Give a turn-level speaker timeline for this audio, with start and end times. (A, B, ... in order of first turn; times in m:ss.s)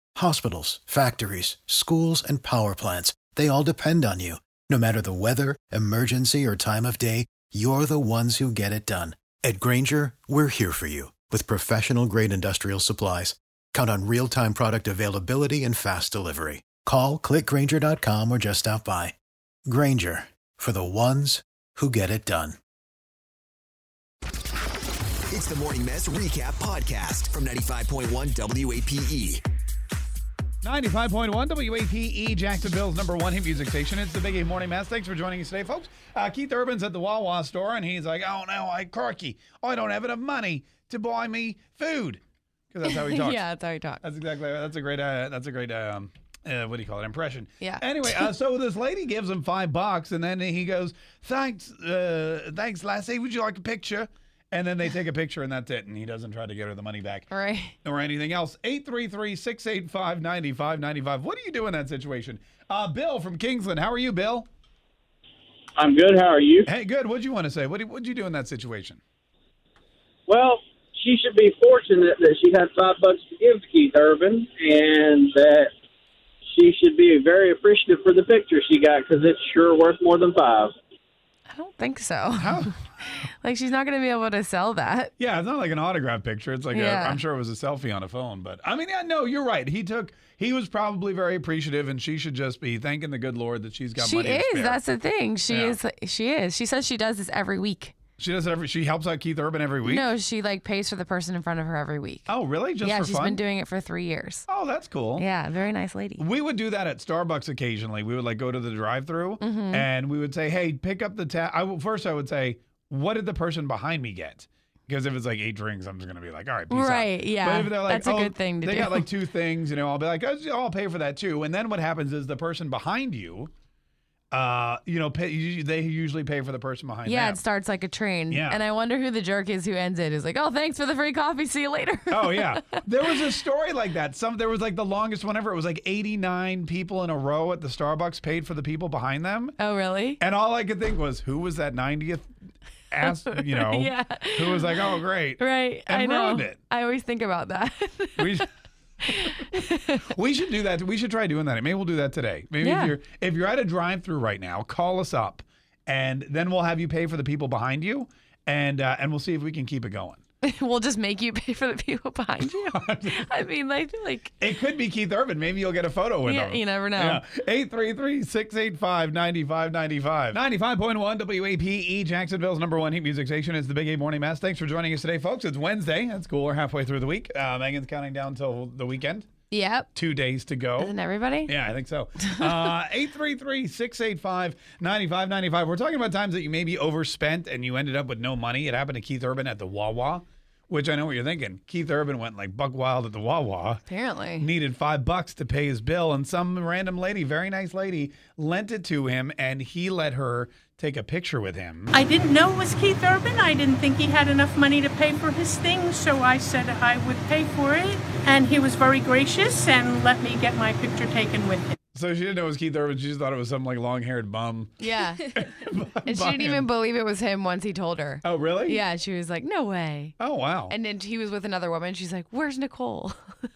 0:00.2-0:19.1 A
0:19.7-0:22.6 A
0:25.3-0:29.4 B
0:30.6-0:42.2 C
0:42.7-0:43.4 C
0:42.8-0:44.0 D
0:44.0-0:57.3 C
0:47.6-0:48.3 D
0:57.3-0:57.7 D
0:57.8-1:04.5 C
1:05.8-1:06.6 E
1:06.6-1:09.0 C
1:10.3-1:15.7 E
1:16.5-1:20.7 E
1:21.5-1:25.1 D
1:22.4-1:22.7 C
1:25.2-1:34.8 C
1:26.7-1:27.2 D
1:34.0-1:38.0 D
1:35.5-1:35.8 C
1:38.2-1:40.1 C
1:39.8-1:42.3 D
1:42.3-1:43.4 C
1:42.8-1:44.4 D
1:44.5-1:45.3 C
1:45.2-1:46.2 D
1:46.2-2:03.5 C
1:49.4-1:49.8 D
1:56.7-1:59.1 D
2:04.3-2:07.4 C
2:07.0-2:12.7 D
2:08.3-2:08.6 C
2:12.1-2:19.6 C
2:19.6-2:20.2 D
2:20.2-2:22.3 C
2:22.9-2:26.6 C
2:23.2-2:28.4 D
2:28.2-2:28.4 C
2:29.0-2:30.1 D
2:30.1-2:40.2 C
2:32.6-2:32.9 D
2:40.4-2:44.4 D
2:42.4-2:43.3 C
2:44.4-2:59.3 C
2:46.2-2:47.2 D
2:59.5-2:59.9 D
2:59.9-3:00.9 C
3:00.8-3:01.5 D
3:01.4-3:13.9 C
3:02.2-3:02.5 D
3:13.9-3:14.5 D
3:14.4-3:21.9 C
3:21.9-3:31.7 F
3:31.9-3:36.7 C
3:34.8-3:35.3 D
3:36.0-3:40.1 D
3:38.2-3:38.8 C
3:40.2-3:40.8 C
3:40.7-3:43.5 D